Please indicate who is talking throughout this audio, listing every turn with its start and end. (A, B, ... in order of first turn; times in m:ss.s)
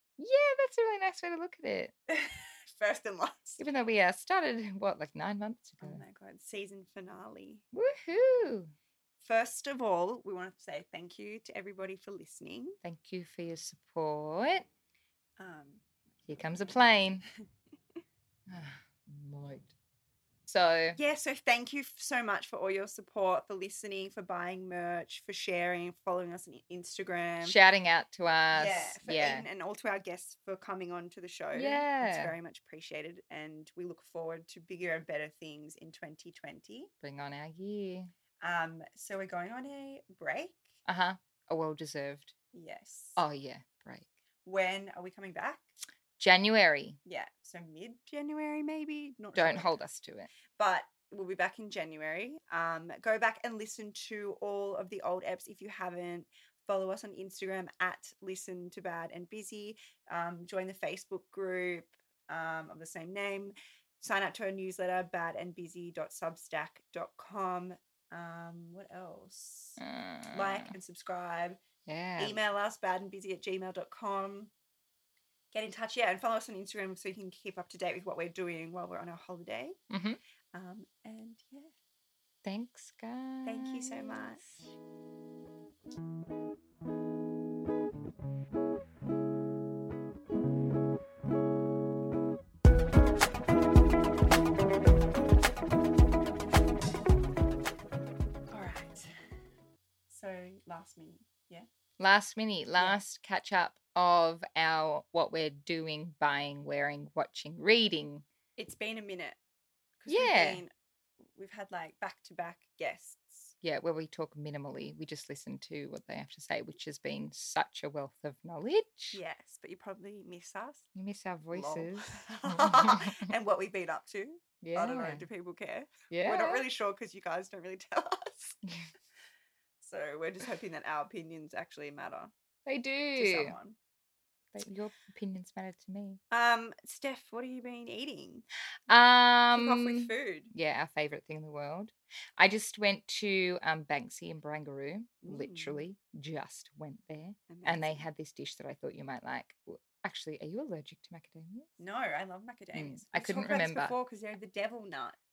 0:00.2-0:01.9 A
0:02.1-0:03.6 B
0:03.6-0:06.0 A
0:05.8-0:07.6 B
0:07.7-0:08.7 A
0:09.2-0:12.8 B
0:12.8-0:14.6 A
0:15.4-0:15.8 B
0:16.3-0:17.2 A
0:18.5-0:19.7 A
0:20.5-0:21.0 A
0:21.0-0:27.6 B
0:27.4-0:29.4 A
0:28.5-0:36.9 B
0:31.5-0:32.3 A
0:37.0-0:38.1 A
0:38.4-0:40.6 B
0:40.8-0:42.3 A
0:42.5-0:43.2 B
0:43.2-0:44.1 A
0:44.4-0:45.7 B
0:46.2-0:47.0 A
0:47.0-0:49.8 B
0:49.3-0:50.3 A
0:50.5-1:09.8 B
1:09.8-1:10.7 A
1:10.3-1:11.6 B
1:11.8-1:12.4 A
1:12.2-1:14.5 B
1:15.5-1:19.8 B
1:19.9-1:20.2 A
1:20.5-1:21.7 B
1:22.4-1:24.7 A
1:23.4-1:24.4 B
1:38.5-1:39.1 B
1:40.1-1:41.7 B
1:42.0-1:48.2 A
1:48.6-1:49.4 B
1:50.0-1:50.7 B
1:50.1-1:50.6 A
1:51.2-1:53.6 B
1:53.6-1:59.2 A
1:59.1-2:00.9 B
2:00.9-2:03.2 A
2:01.5-2:08.6 B
2:04.6-2:05.2 A
2:06.1-2:06.6 A
2:09.8-2:12.3 B
2:12.6-2:13.6 A
2:13.1-2:13.8 B
2:14.5-2:16.2 A
2:16.3-2:18.4 B
2:18.9-2:31.8 A
2:19.5-2:20.5 B
2:25.2-2:25.8 B
2:27.5-2:28.1 B
2:31.8-2:35.2 B
2:32.7-2:33.9 A